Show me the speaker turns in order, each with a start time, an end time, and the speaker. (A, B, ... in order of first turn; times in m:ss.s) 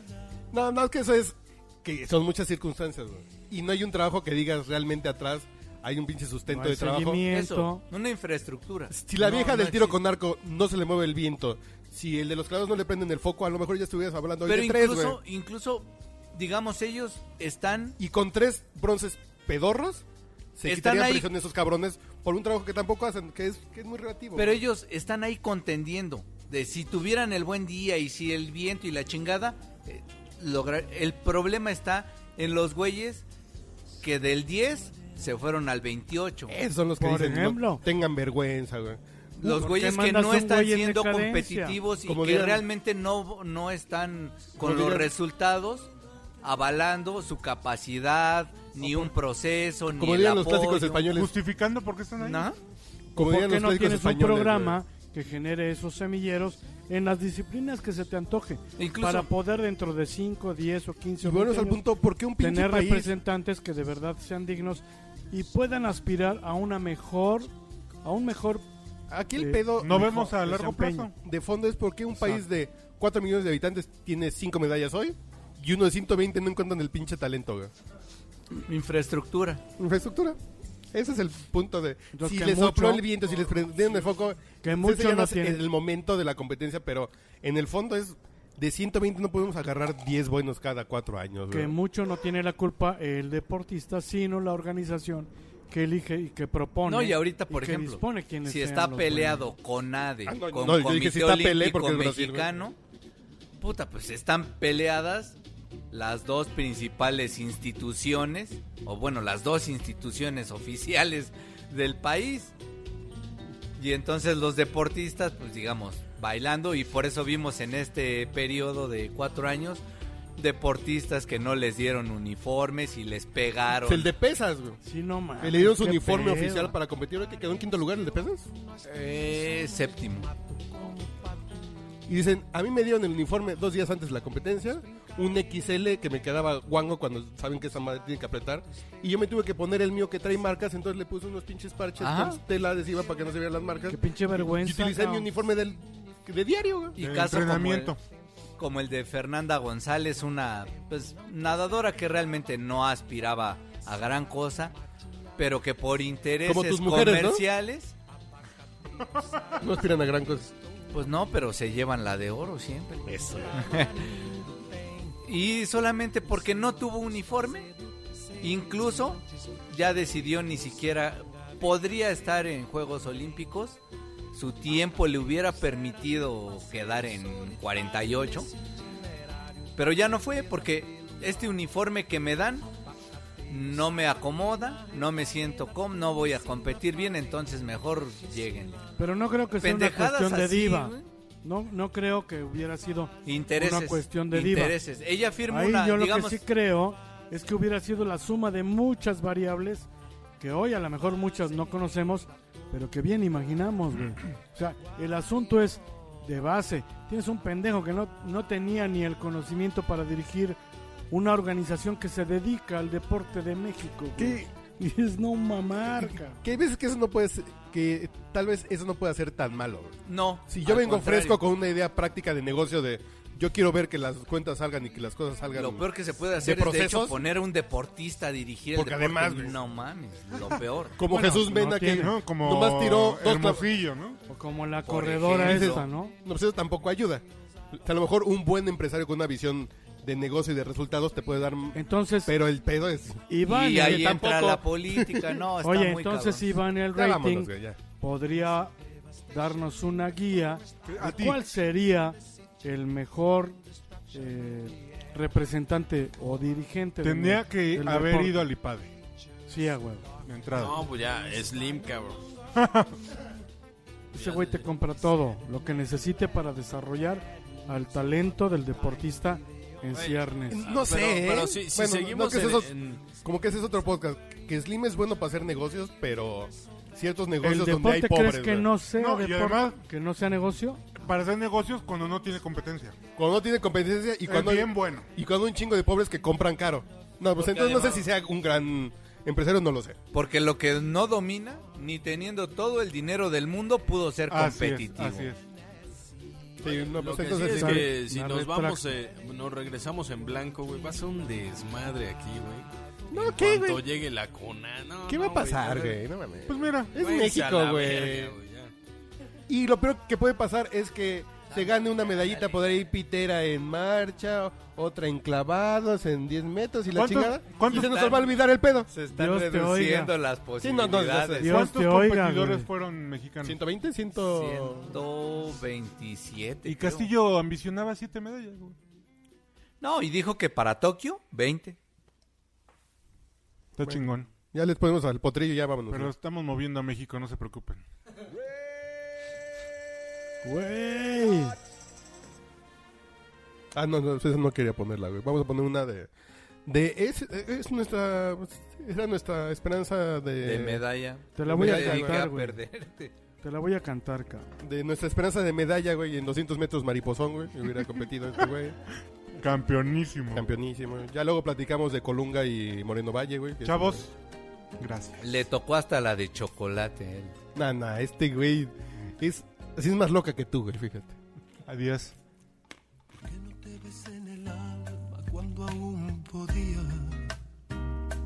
0:00.5-0:07.2 A
0:06.5-0:07.8 B
0:07.3-0:10.0 C
0:08.9-0:15.2 A
0:14.4-0:18.0 C
0:18.0-0:20.0 A
0:20.6-0:24.6 A
0:20.6-0:21.3 C
0:24.3-0:33.2 C
0:34.0-0:36.6 C
0:36.5-0:39.0 A
0:37.0-0:37.8 B
0:39.4-0:45.9 C
0:39.4-0:41.8 B
0:42.0-0:42.6 A
0:44.6-0:45.1 A
0:46.4-0:51.1 C
0:49.9-0:51.3 A
0:51.1-0:52.5 D
0:52.2-0:52.6 C
0:53.2-0:54.8 A
0:53.2-1:01.8 B
0:58.8-0:59.3 C
1:01.2-1:03.1 A
1:02.4-1:07.5 B
1:08.0-1:08.6 B
1:09.1-1:10.3 A
1:09.4-1:11.1 B
1:09.8-1:11.1 D
1:11.1-1:17.7 A
1:18.5-1:19.6 C
1:19.8-1:20.4 A
1:20.9-1:31.8 A
1:22.1-1:23.0 B
1:24.6-1:25.6 B
1:31.5-1:39.5 B
1:36.8-1:42.8 C
1:40.2-1:42.5 A
1:43.6-1:45.4 C
1:45.9-1:52.5 C
1:53.8-1:59.8 C
2:00.4-2:04.1 C
2:03.8-2:04.8 A
2:04.8-2:06.7 B
2:05.4-2:08.5 A
2:08.8-2:10.3 C
2:12.1-2:27.0 A
2:22.0-2:22.4 C
2:23.9-2:25.3 B
2:27.0-2:28.0 C
2:27.0-2:28.0 D
2:28.6-2:34.7 C
2:35.4-2:37.9 C
2:36.4-2:37.4 A
2:39.6-2:40.5 A
2:40.9-2:44.0 C
2:43.1-2:43.6 A
2:45.2-2:47.7 C
2:48.4-2:53.8 C
2:54.3-2:58.5 C
2:59.8-3:02.7 C
3:03.5-3:08.8 C
3:09.0-3:14.8 B
3:09.6-3:11.0 C
3:13.2-3:16.4 C
3:15.5-3:19.9 B
3:20.4-3:30.6 B
3:31.1-3:36.4 B
3:34.2-3:34.4 A
3:35.9-3:40.0 A
3:40.1-3:41.4 C
3:40.5-3:45.9 A
3:45.5-3:51.0 C
3:46.4-3:47.2 A
3:48.8-3:49.6 A
3:51.0-3:53.7 A
3:51.1-3:52.1 B
3:51.9-3:54.2 D
3:54.3-3:56.2 B
3:54.9-3:55.8 C
3:55.3-4:03.2 A
4:01.7-4:02.3 B
4:03.3-4:04.2 B
4:03.4-4:06.6 C
4:03.8-4:05.4 A
4:05.6-4:08.7 B
4:06.9-4:07.8 A
4:09.3-4:13.6 B
4:10.8-4:11.4 D
4:14.1-4:18.5 B
4:17.0-4:18.9 D
4:19.5-4:20.1 B
4:20.2-4:20.8 D
4:20.5-4:22.3 E
4:22.5-4:23.0 D
4:24.1-4:24.7 E
4:24.1-4:30.6 B
4:29.9-4:33.0 E
4:30.5-4:38.7 A
4:37.4-4:40.8 B
4:39.0-4:39.8 D
4:40.9-4:43.0 D
4:43.2-4:50.0 A
4:44.2-4:45.1 D
4:47.4-4:48.1 C
4:50.1-4:55.3 C
4:54.3-4:55.4 D
4:56.6-4:57.9 A
4:56.7-5:06.0 E
4:57.5-4:58.8 B
5:03.1-5:03.8 A
5:05.1-5:08.3 A
5:06.5-5:07.0 D
5:06.9-5:08.7 E
5:07.2-5:08.1 C
5:09.5-5:18.9 A
5:11.5-5:12.6 C
5:16.9-5:18.2 D
5:17.6-5:18.3 C
5:18.9-5:21.6 C
5:19.1-5:20.1 B
5:20.6-5:21.6 A
5:21.4-5:22.7 B
5:21.4-5:23.6 D
5:23.4-5:25.0 A
5:24.3-5:27.1 C
5:26.6-5:28.8 D
5:29.8-5:31.8 C
5:33.8-5:34.3 D
5:33.8-5:36.1 A
5:35.9-5:37.8 D
5:40.4-5:41.6 B
5:43.7-5:46.1 A
5:46.6-5:50.8 A
5:50.4-5:53.1 C
5:51.3-5:52.6 B
5:51.4-5:52.2 A
5:53.4-5:54.5 B
5:54.6-5:58.8 A
5:59.4-6:00.5 D
6:00.3-6:04.0 A
6:03.6-6:04.1 D
6:04.8-6:05.2 D
6:05.2-6:07.4 C
6:07.5-6:11.2 A
6:11.7-6:12.1 D
6:13.2-6:17.3 F